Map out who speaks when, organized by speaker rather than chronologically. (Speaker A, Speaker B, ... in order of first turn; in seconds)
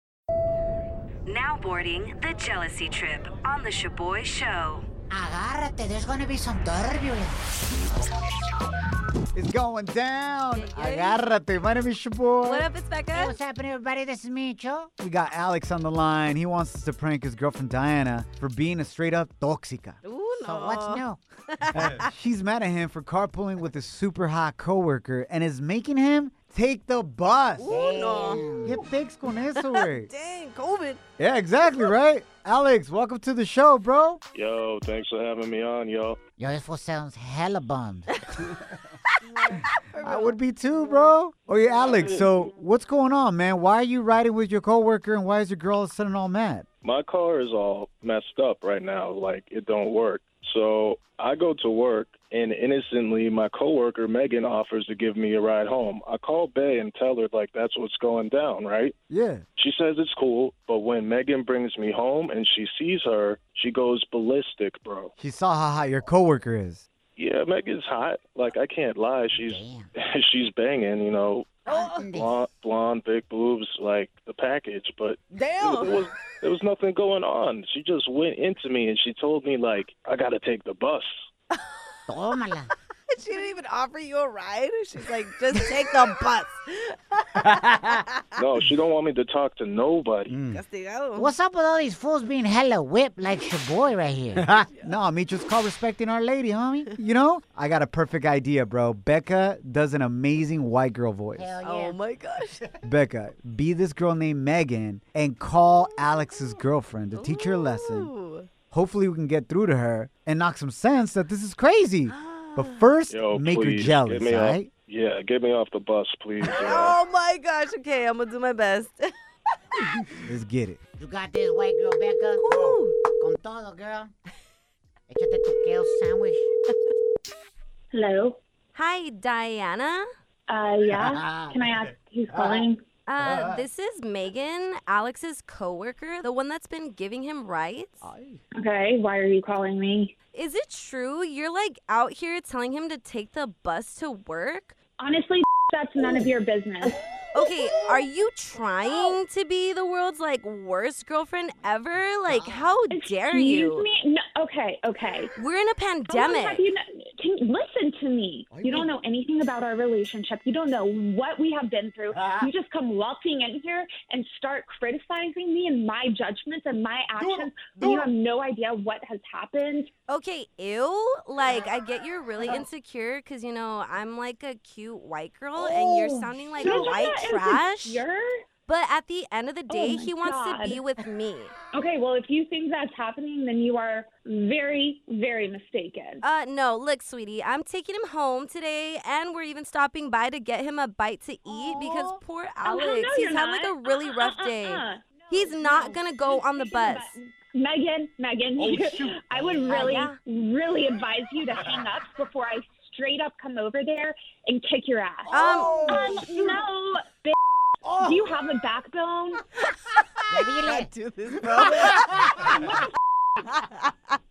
Speaker A: 1.3-4.8
Speaker B: 5.1-7.4, 13.1-14.9, 20.4-21.2, 27.7-28.9, 36.4-38.1, 69.3-69.9, 71.7-72.3, 82.1-82.7, 91.2-94.5, 101.3-102.0, 121.0-124.1, 125.1-126.5, 130.9-131.6, 210.3-210.9
Speaker C: 9.3-12.7, 15.0-20.0, 21.8-27.7, 28.6-30.1, 31.2-34.2, 40.0-46.7, 59.1-59.4, 65.2-66.8, 87.6-87.9, 90.3-90.6, 94.4-101.5, 102.8-108.1, 108.7-114.7, 120.2-120.8, 132.3-132.7, 133.2-133.6, 138.0-138.4, 152.3-152.7, 158.5-158.9, 162.1-162.5, 167.2-168.1, 198.7-199.7, 211.4-212.1
Speaker D: 10.5-11.2, 12.4-13.3, 20.0-22.1, 27.6-28.5, 29.6-31.0, 39.2-40.4, 71.7-72.0, 75.3-76.0, 83.1-88.3, 90.5-91.3, 101.6-102.6, 107.1-108.5, 112.1-112.9, 116.5-119.1, 122.4-123.0, 128.7-130.1, 133.1-138.1, 140.3-144.8, 147.3-153.9, 155.4-156.7, 170.1-178.0, 178.7-181.5, 186.2-197.2, 199.7-200.2, 205.3-206.2, 210.0-212.8, 213.4-213.9
Speaker E: 34.4-36.2, 41.8-42.3, 46.8-58.9, 59.6-65.1, 67.2-81.2, 88.4-90.3, 113.1-117.0
Speaker F: 127.9-128.4, 130.5-132.8, 138.6-140.1, 145.0-147.0, 152.9-155.3, 156.1-169.9, 175.6-178.3, 179.7-180.8, 181.7-186.2, 191.7-207.4, 207.9-209.4